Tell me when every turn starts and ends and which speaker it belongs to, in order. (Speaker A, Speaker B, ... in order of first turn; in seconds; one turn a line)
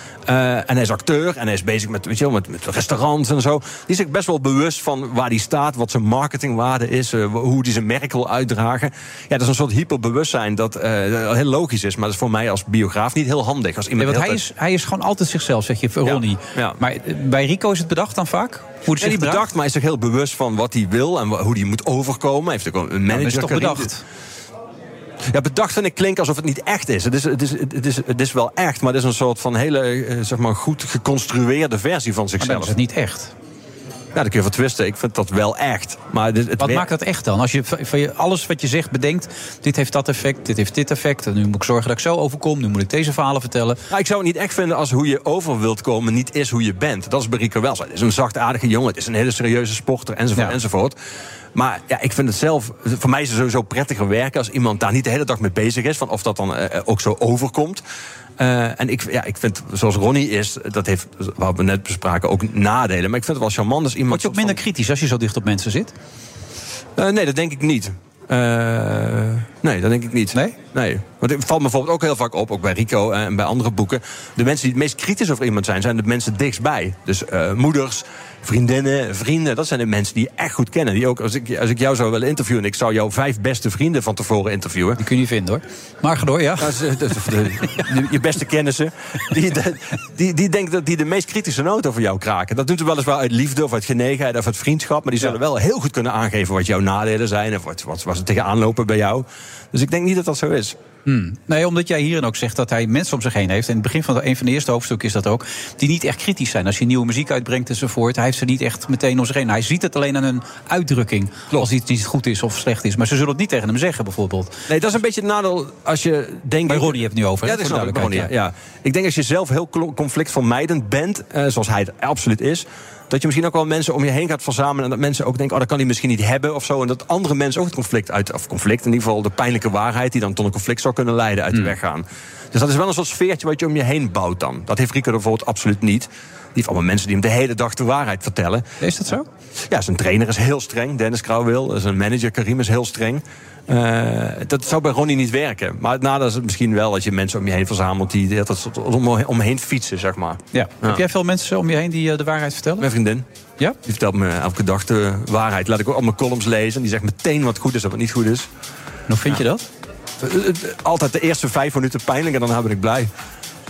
Speaker A: 0.3-14.4
Speaker B: 14.0-19.4
Speaker A: 16.1-16.8
Speaker A: 19.0-23.9
Speaker B: 23.1-24.0
Speaker A: 25.3-32.8
Speaker B: 32.4-33.3
Speaker A: 34.1-36.9
Speaker B: 36.6-43.8
Speaker A: 43.9-51.0
Speaker A: 51.5-57.8
Speaker A: 58.4-64.6
Speaker B: 64.1-65.9
Speaker A: 67.0-85.0
Speaker B: 85.0-87.9
Speaker A: 86.6-100.8
Speaker B: 101.1-114.5
Speaker A: 114.7-138.7
Speaker B: 116.7-118.3
Speaker B: 138.8-139.2
Speaker A: 139.7-151.0
Speaker B: 150.5-152.9
Speaker A: 152.8-153.2
Speaker A: 153.8-158.5
Speaker B: 159.1-159.6
Speaker A: 160.2-163.1